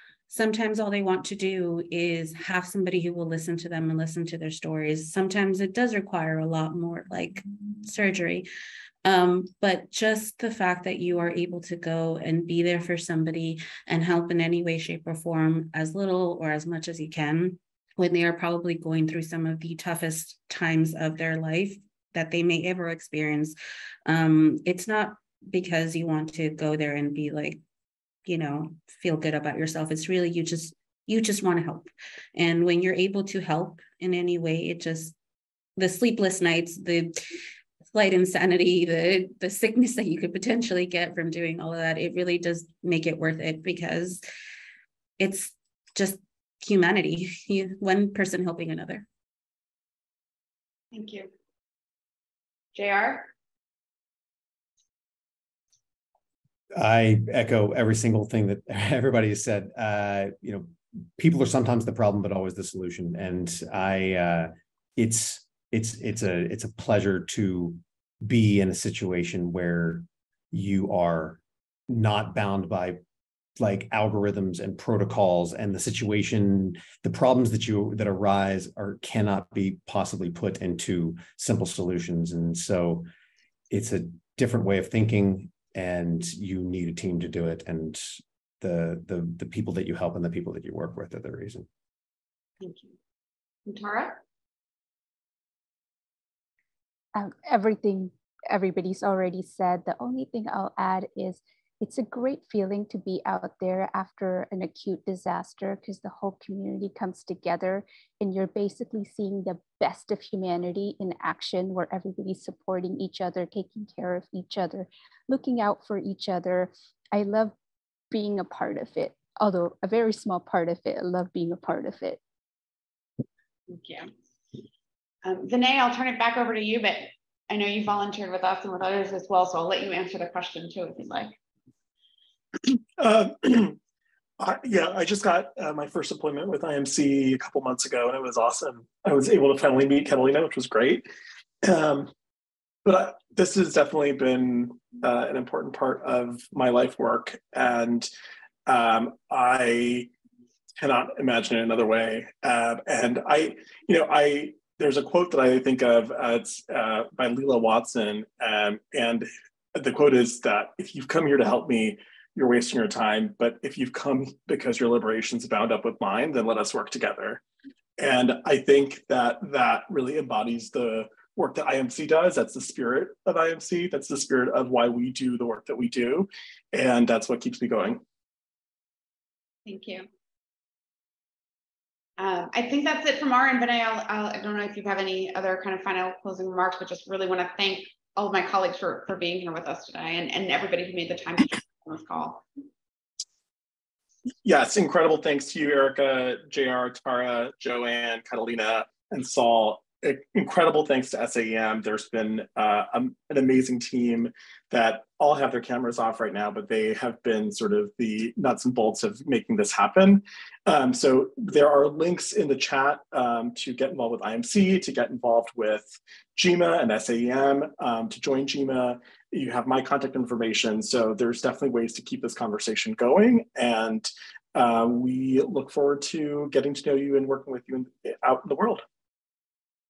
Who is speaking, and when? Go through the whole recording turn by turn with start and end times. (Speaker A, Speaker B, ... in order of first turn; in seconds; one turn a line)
Speaker A: 0.3-8.5
Speaker A: 9.0-23.6
Speaker A: 24.1-27.6
Speaker A: 28.2-35.1
Speaker A: 35.8-37.2
Speaker A: 37.9-44.2
Speaker A: 45.2-49.1
Speaker B: 50.9-51.3
Speaker B: 52.7-53.3
Speaker C: 56.7-73.0
Speaker C: 73.6-83.1
Speaker C: 83.7-91.7
Speaker B: 92.6-93.0
Speaker B: 93.7-94.2
Speaker D: 97.1-117.5
Speaker D: 118.1-122.2
Speaker B: 123.7-124.1
Speaker B: 125.2-131.4
Speaker E: 132.6-133.8
Speaker E: 134.4-141.0
Speaker E: 141.6-142.1
Speaker E: 142.8-148.1
Speaker E: 148.7-150.1
Speaker E: 150.8-167.4
Speaker E: 168.0-178.0
Speaker B: 179.7-180.1
Speaker B: 182.2-192.4
Speaker E: 194.4-228.8